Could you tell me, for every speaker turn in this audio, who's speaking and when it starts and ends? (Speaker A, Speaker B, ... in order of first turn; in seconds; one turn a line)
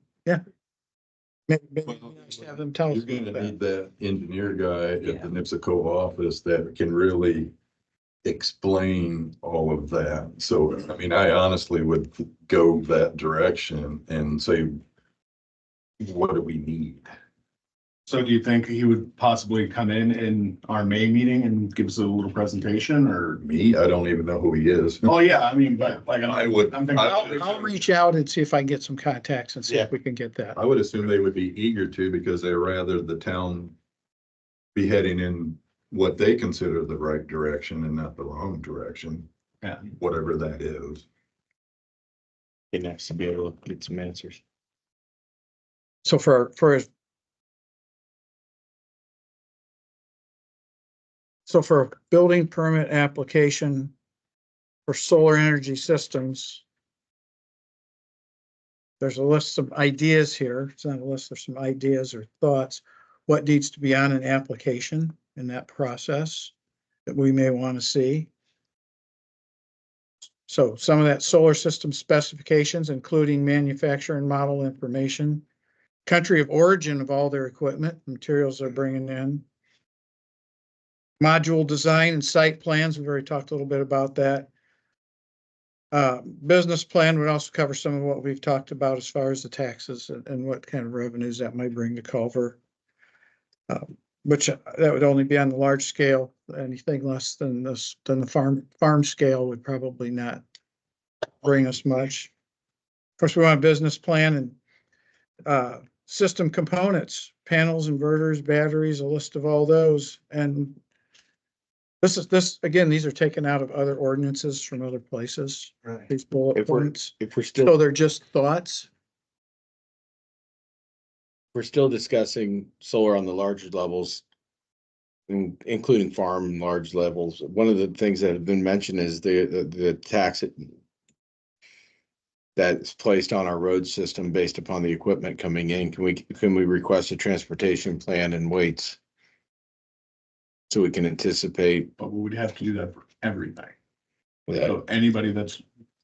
Speaker A: 1.5-3.5
Speaker B: 2.9-7.5
Speaker B: 8.2-14.8
Speaker B: 16.0-17.1
Speaker C: 18.1-23.4
Speaker B: 23.4-25.1
Speaker C: 25.0-27.5
Speaker B: 26.3-27.7
Speaker A: 27.0-30.6
Speaker B: 30.5-33.8
Speaker B: 34.8-39.3
Speaker C: 39.6-39.9
Speaker B: 39.9-41.1
Speaker D: 42.7-44.4
Speaker A: 46.0-46.9
Speaker A: 51.5-53.9
Speaker A: 54.9-56.6
Speaker A: 59.0-66.5
Speaker A: 67.1-68.3
Speaker A: 70.5-75.5
Speaker A: 76.0-79.5
Speaker A: 81.2-84.5
Speaker A: 85.9-92.6
Speaker A: 93.7-100.4
Speaker A: 101.4-102.3
Speaker A: 103.2-104.6
Speaker A: 105.5-110.8
Speaker A: 112.0-118.9
Speaker D: 116.5-117.7
Speaker D: 121.5-124.2
Speaker D: 125.3-130.8
Speaker D: 132.6-139.0
Speaker D: 140.7-141.9
Speaker C: 142.0-143.7
Speaker D: 144.5-144.8
Speaker C: 144.6-145.6